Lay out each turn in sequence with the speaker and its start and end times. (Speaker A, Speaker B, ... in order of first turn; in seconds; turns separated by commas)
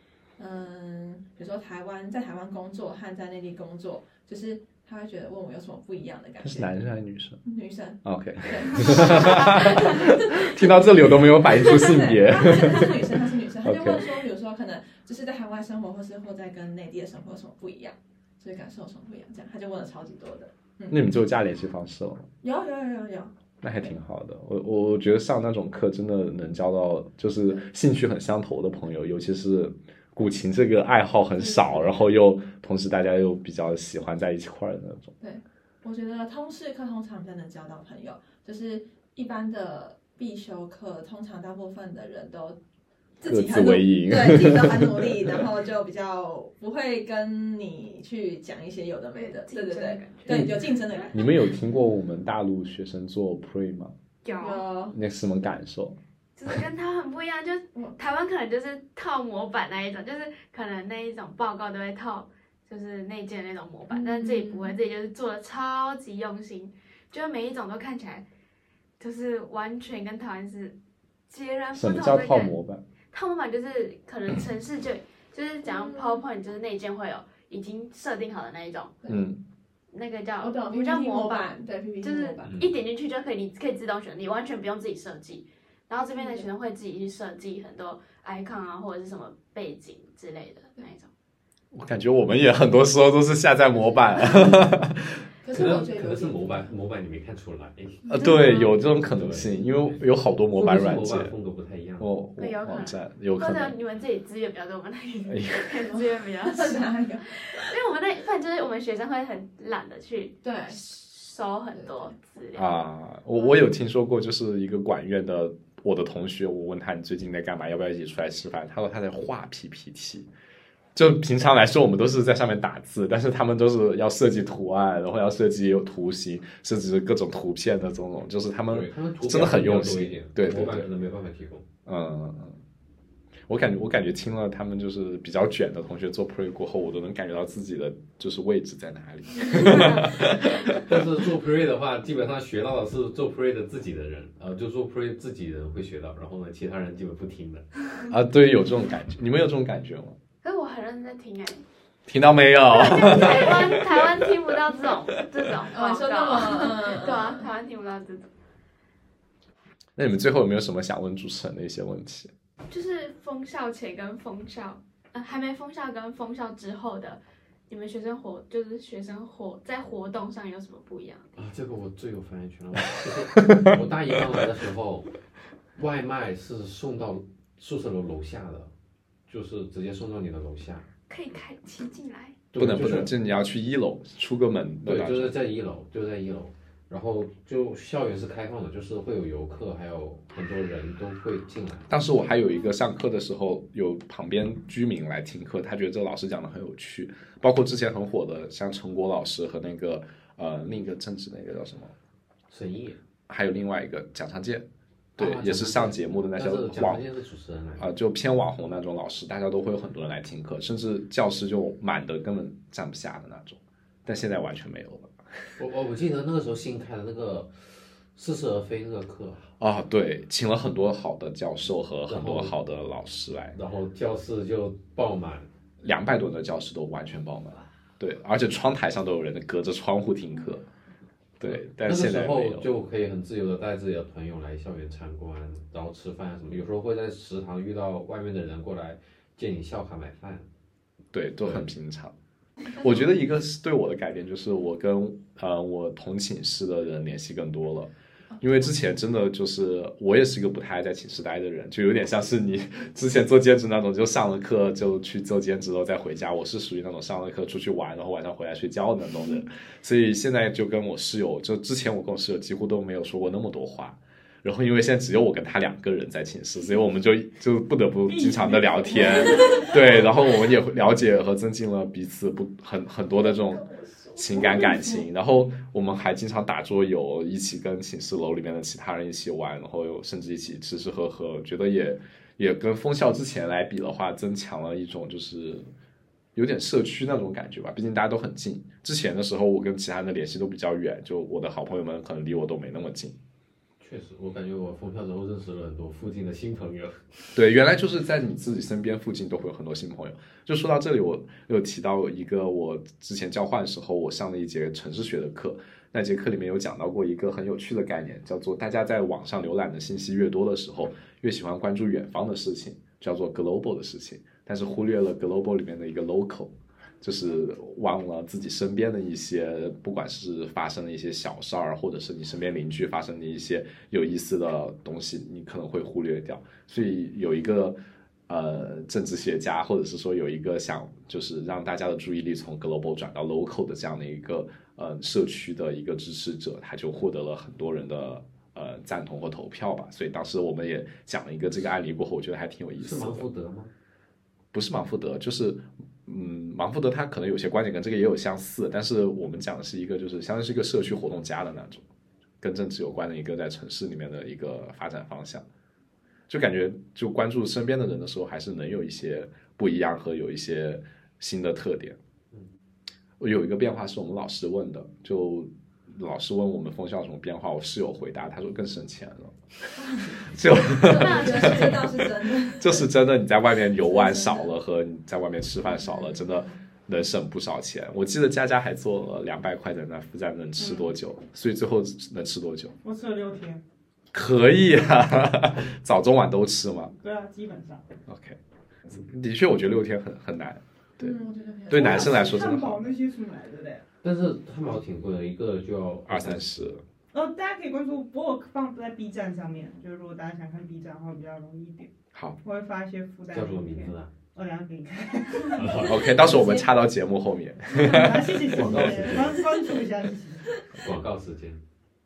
Speaker A: 0.4-6.7, Speaker B: 6.4-7.4, Speaker A: 7.4-21.0, Speaker B: 8.0-14.2, Speaker B: 20.9-22.3, Speaker A: 22.4-23.4, Speaker B: 23.6-35.1, Speaker A: 31.3-32.1, Speaker A: 35.2-42.6, Speaker A: 43.2-51.3, Speaker B: 43.2-45.5, Speaker C: 49.1-50.4, Speaker B: 50.2-50.6, Speaker B: 51.1-53.9, Speaker C: 54.2-54.6, Speaker A: 54.4-55.0, Speaker B: 54.9-56.0, Speaker C: 56.4-68.2, Speaker A: 63.9-64.8, Speaker C: 69.0-70.8, Speaker C: 71.3-72.5, Speaker B: 71.7-72.8, Speaker C: 73.1-78.9, Speaker A: 75.6-76.2, Speaker B: 79.0-79.4, Speaker C: 79.9-91.1, Speaker A: 80.4-82.5, Speaker D: 82.4-82.7, Speaker A: 86.1-86.5, Speaker B: 91.7-95.1, Speaker A: 95.4-96.7, Speaker D: 95.5-98.1, Speaker B: 98.1-101.3, Speaker C: 98.1-98.7, Speaker D: 98.8-100.0, Speaker D: 100.5-102.1, Speaker B: 102.0-103.8, Speaker C: 102.4-112.8, Speaker B: 105.2-105.8, Speaker A: 105.8-107.3, Speaker A: 110.4-110.8, Speaker A: 111.7-112.1, Speaker B: 112.5-120.3, Speaker B: 120.9-130.9, Speaker D: 128.7-131.6, Speaker B: 131.8-132.6, Speaker B: 133.5-141.0, Speaker C: 139.5-140.0, Speaker D: 140.7-147.9, Speaker B: 148.1-150.2, Speaker C: 150.4-151.6, Speaker B: 152.1-154.2, Speaker C: 152.7-158.3, Speaker A: 155.7-157.5, Speaker B: 159.9-162.3, Speaker C: 162.7-171.3, Speaker D: 171.3-175.1, Speaker B: 173.4-173.8, Speaker D: 175.8-178.7, Speaker D: 179.3-180.9, Speaker C: 181.1-182.3, Speaker D: 182.5-183.1, Speaker B: 182.6-185.3, Speaker D: 184.8-191.9, Speaker B: 191.9-201.9, Speaker D: 202.5-203.0, Speaker B: 203.3-204.7, Speaker B: 205.2-207.0, Speaker D: 205.2-207.9, Speaker B: 207.8-215.6, Speaker D: 215.6-219.5, Speaker B: 219.6-223.6, Speaker D: 222.1-222.5, Speaker D: 223.5-225.5, Speaker B: 225.8-230.7, Speaker B: 231.4-232.7, Speaker D: 231.4-240.5, Speaker B: 241.1-242.1, Speaker D: 241.4-241.7, Speaker B: 242.8-285.7, Speaker A: 248.3-248.6, Speaker E: 268.1-269.8, Speaker A: 269.5-269.7, Speaker A: 273.4-275.0, Speaker B: 286.3-293.2, Speaker D: 293.8-297.4, Speaker B: 297.3-343.2, Speaker D: 342.8-343.7, Speaker B: 344.5-351.8, Speaker B: 352.4-355.4, Speaker B: 356.3-362.0, Speaker B: 363.2-369.4, Speaker A: 369.8-372.9, Speaker B: 370.1-382.8, Speaker C: 370.8-371.7, Speaker A: 373.8-374.5, Speaker A: 375.7-376.5, Speaker E: 382.8-383.6, Speaker B: 384.1-386.9, Speaker E: 387.0-387.8, Speaker B: 388.1-391.1, Speaker A: 391.0-392.2, Speaker B: 391.7-392.8, Speaker E: 391.7-393.8, Speaker D: 394.0-396.5, Speaker B: 396.1-396.8, Speaker E: 397.1-401.9, Speaker E: 402.4-406.1, Speaker D: 403.3-404.1, Speaker D: 405.5-406.0, Speaker B: 405.8-409.2, Speaker E: 407.7-410.4, Speaker D: 408.5-409.5, Speaker D: 410.8-411.6